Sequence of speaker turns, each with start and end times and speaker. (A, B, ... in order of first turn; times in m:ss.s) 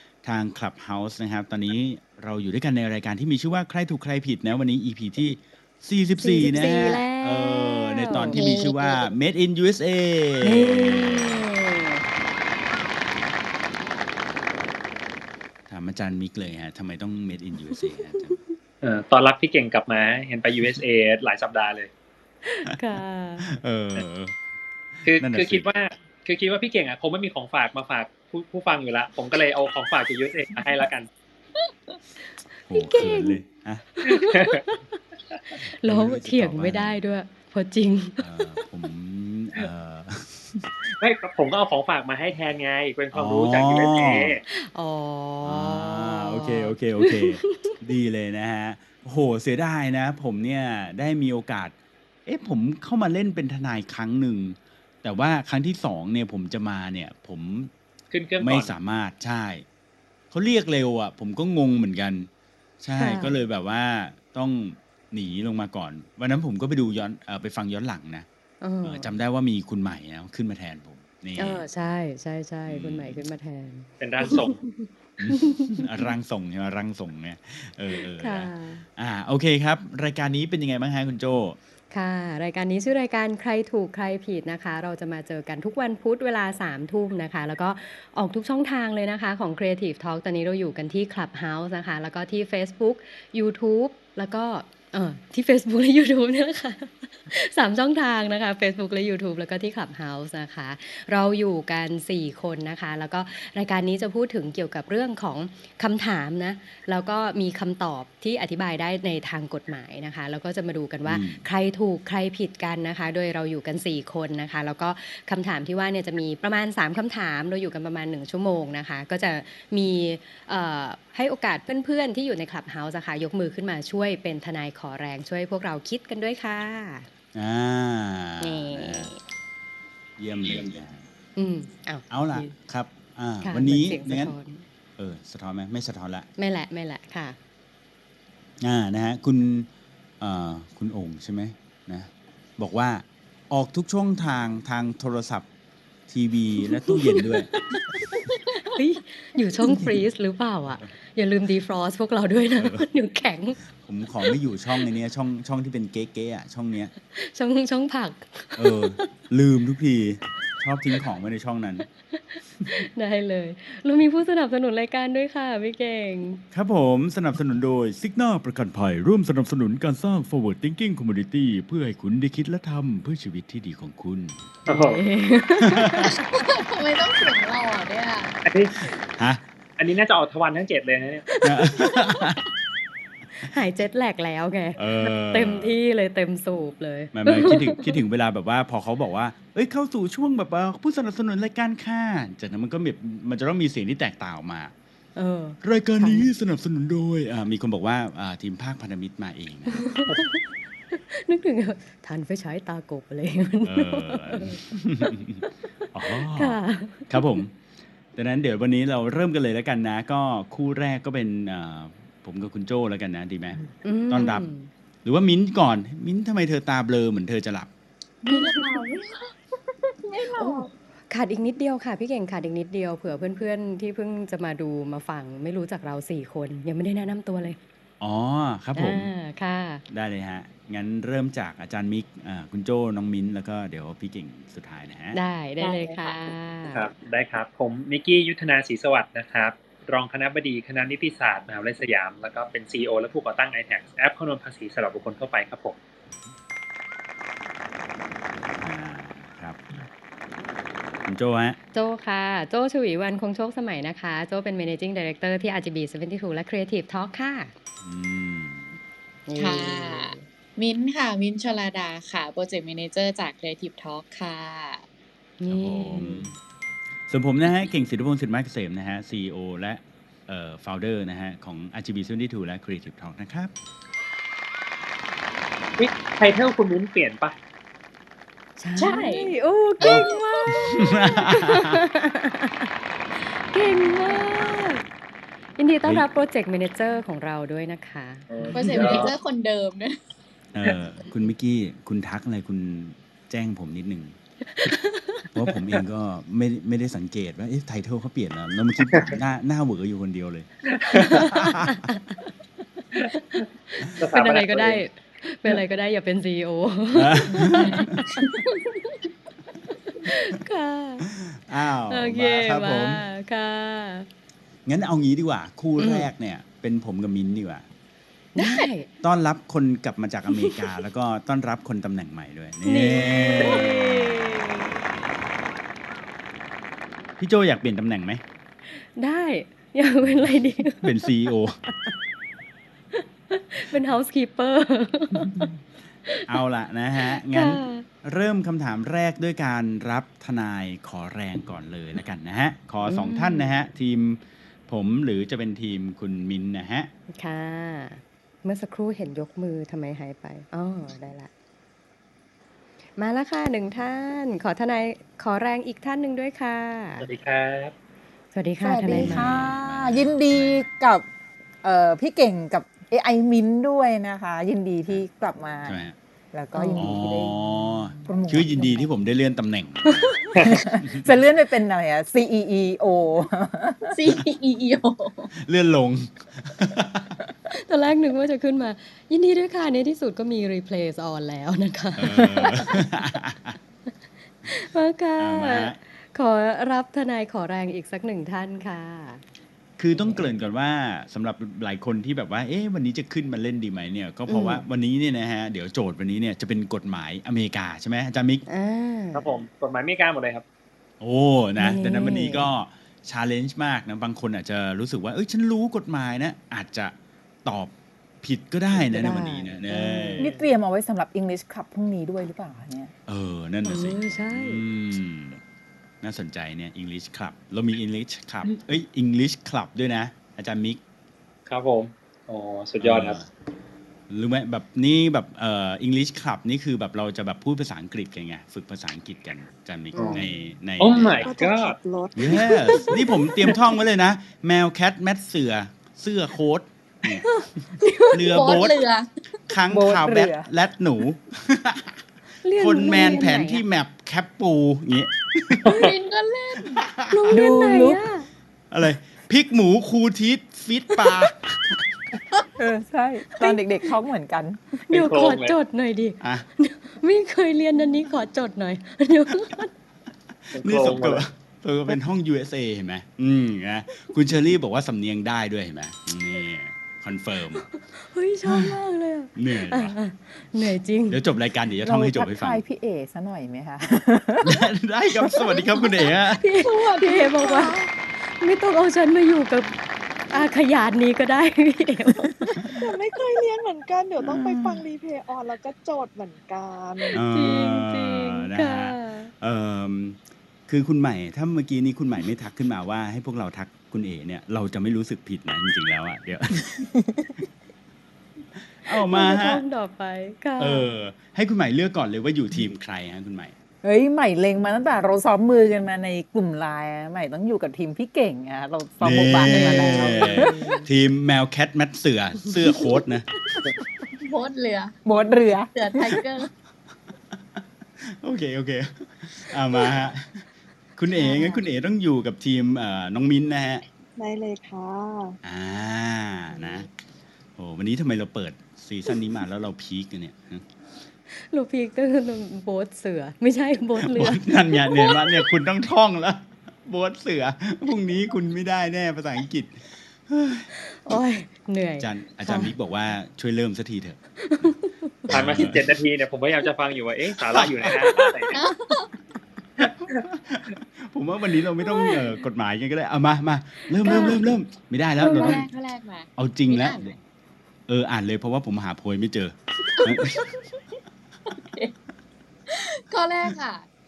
0:00.2-0:11.4 A
0:06.2-0:08.8 B
0:10.4-0:12.0 B
0:15.7-0:18.4 A
0:18.3-0:18.5 B
0:18.8-0:21.9 C
0:22.4-0:23.5 B
0:23.4-0:24.3 A
0:25.0-0:25.6 A
0:25.0-0:31.1 C
0:32.7-0:33.8 A
0:32.7-0:33.4 B
0:34.0-0:35.0 B
0:34.3-0:34.6 C
0:35.6-0:37.0 A
0:35.8-0:38.6 B
0:38.2-0:40.7 A
0:41.0-0:44.4 C
0:43.1-0:44.3 A
0:44.5-0:47.7 B
0:45.4-0:51.7 A
0:52.2-0:57.7 A
0:58.1-0:58.7 C
0:58.4-0:59.6 A
1:00.3-1:02.3 A
1:02.8-1:08.2 A
1:02.9-1:03.4 B
1:08.6-1:09.1 B
1:08.8-1:11.6 A
1:11.4-1:16.1 B
1:12.7-1:13.2 A
1:14.0-1:14.6 C
1:15.2-1:21.6 A
1:17.9-1:18.8 B
1:21.9-2:07.1 B
1:51.0-1:51.4 A
2:07.3-2:09.1 A
2:08.4-2:09.2 B
2:10.2-2:11.0 A
2:11.4-2:12.5 B
2:12.1-2:14.4 A
2:13.4-2:14.6 B
2:15.0-2:16.3 A
2:16.4-2:17.4 B
2:18.6-2:19.7 A
2:20.2-2:25.4 A
2:26.1-2:27.5 A
2:26.7-2:33.6 B
2:29.6-2:30.0 A
2:32.6-2:32.9 A
2:33.7-2:36.9 A
2:37.1-2:39.1 B
2:38.6-2:41.8 A
2:42.2-2:46.4 B
2:46.5-2:54.4 A
2:54.7-2:55.0 C
2:54.7-2:56.2 B
2:55.6-2:56.1 A
2:56.2-2:58.4 D
2:58.4-2:58.7 C
2:59.2-2:59.4 A
2:59.8-3:01.2 C
3:01.3-3:01.9 B
3:01.4-3:02.4 A
3:03.4-3:08.0 B
3:04.8-3:05.7 A
3:07.1-3:14.7 A
3:15.2-3:16.2 B
3:15.6-3:19.8 A
3:19.7-3:20.4 B
3:21.1-3:25.1 B
3:23.6-3:27.5 A
3:26.1-3:27.4 B
3:28.1-3:33.6 A
3:33.8-3:34.7 B
3:34.1-3:34.5 A
3:35.0-3:37.7 A
3:38.2-3:39.3 D
3:38.3-3:38.8 B
3:39.9-3:40.7 D
3:40.4-3:47.6 B
3:48.0-3:49.1 A
3:48.7-3:49.8 B
3:49.9-3:55.2 A
3:55.1-3:56.9 B
3:56.7-4:05.8 C
4:08.6-4:09.6 A
4:11.0-4:11.6 A
4:11.7-4:17.5 B
4:17.8-4:18.8 A
4:19.3-4:20.2 B
4:19.4-4:24.8 D
4:25.4-4:26.3 B
4:25.5-4:26.3 A
4:27.1-4:33.5 A
4:35.8-4:37.3 C
4:38.6-4:44.8 B
4:38.8-4:40.5 D
4:39.8-4:41.8 A
4:45.6-4:49.1 B
4:48.3-4:49.1 C
4:48.5-4:50.0 D
4:50.5-4:54.1 A
4:54.5-4:55.2 B
4:55.3-5:01.7 A
5:00.7-5:01.0 C
5:01.0-5:02.3 B
5:03.3-5:08.4 B
5:04.0-5:04.8 C
5:06.9-5:08.0 A
5:07.4-5:08.9 D
5:09.7-5:11.1 B
5:11.2-5:13.0 A
5:11.9-5:14.1 B
5:14.6-5:17.6 A
5:15.8-5:16.1 B
5:18.3-5:18.9 B
5:18.4-5:18.7 D
5:19.0-5:24.1 A
5:20.3-5:20.6 B
5:22.6-5:24.7 B
5:27.2-5:28.2 A
5:28.7-5:31.1 B
5:30.8-5:31.6 A
5:31.7-5:31.9 B
5:32.9-5:35.5 B
5:36.3-5:46.9 A
5:37.0-5:37.8 B
5:42.8-5:43.5 B
5:47.1-5:51.3 B
5:53.0-5:57.0 B
5:57.0-5:57.7 C
5:58.3-5:59.5 B
5:58.6-6:01.0 E
5:58.9-6:00.7 A
6:01.6-6:05.8 E
6:05.6-6:05.9 A
6:06.3-6:07.5 E
6:06.5-6:06.9 B
6:06.8-6:10.3 A
6:08.0-6:08.9 E
6:10.4-6:10.6 C
6:10.6-6:14.0 E
6:13.9-6:15.3 D
6:15.4-6:17.1 A
6:17.5-6:22.9 B
6:22.0-6:23.6 A
6:24.4-6:29.2 B
6:25.2-6:25.8 A
6:29.8-6:38.4 A
6:29.9-6:30.3 B
6:34.3-6:34.6 B
6:38.5-6:39.3 B
6:39.1-6:40.4 C
6:41.0-6:46.9 A
6:41.6-6:42.5 B
6:47.4-6:50.3 A
6:48.7-6:50.3 B
6:50.2-6:52.9 E
6:53.1-6:55.4 A
6:53.6-6:54.6 B
6:56.0-7:00.8 A
7:01.5-7:03.2 C
7:02.8-7:03.3 A
7:04.1-7:11.3 A
7:10.0-7:10.2 C
7:10.0-7:10.3 B
7:10.8-7:11.8 C
7:11.2-7:13.0 F
7:12.1-7:17.3 A
7:17.3-7:18.6 B
7:18.1-7:18.8 A
7:18.3-7:19.1 D
7:19.5-7:21.9 A
7:19.7-7:20.5 E
7:22.4-7:23.6 B
7:22.6-7:25.9 A
7:25.7-7:26.8 D
7:26.8-7:27.2 A
7:27.1-7:28.3 B
7:27.3-7:28.0 E
7:28.7-7:31.9 A
7:32.6-7:34.6 E
7:34.9-7:39.7 B
7:34.9-7:35.5 C
7:40.5-7:47.6 A
7:40.5-7:41.2 C
7:47.9-7:51.2 B
7:48.4-7:48.7 A
7:49.4-7:50.0 A
7:51.1-7:52.6 A
7:51.8-7:54.5 E
7:54.4-7:56.4 A
7:55.3-7:55.8 B
7:56.4-7:59.7 B
7:56.6-7:57.9 F
8:00.3-8:02.7 B
8:02.8-8:07.2 F
8:04.2-8:04.8 A
8:07.1-8:09.3 B
8:07.1-8:16.9 A
8:18.8-8:19.6 A
8:18.9-8:20.9 B
8:20.6-8:23.5 A
8:23.8-8:30.7 E
8:29.0-8:33.3 A
8:29.4-8:30.8 B
8:34.2-8:35.0 D
8:35.0-8:35.7 E
8:35.7-8:36.5 D
8:38.0-8:40.4 A
8:41.0-8:43.8 A
8:41.2-8:41.5 B
8:44.2-8:45.3 F
8:45.4-8:46.9 A
8:46.5-8:46.8 B
8:47.6-8:50.6 A
8:51.5-8:55.4 B
8:54.0-9:00.7 A
9:00.9-9:02.7 B
9:02.0-9:04.7 A
9:04.4-9:05.7 B
9:05.3-9:05.8 A
9:05.3-9:08.6 C
9:07.5-9:08.0 A
9:08.5-9:09.1 D
9:09.8-9:15.7 A
9:11.8-9:12.4 B
9:14.0-9:14.4 B
9:14.1-9:14.4 D
9:15.2-9:17.1 D
9:15.3-9:15.6 B
9:16.4-9:17.2 A
9:17.9-9:20.4 A
9:21.5-9:21.9 D
9:22.7-9:23.9 D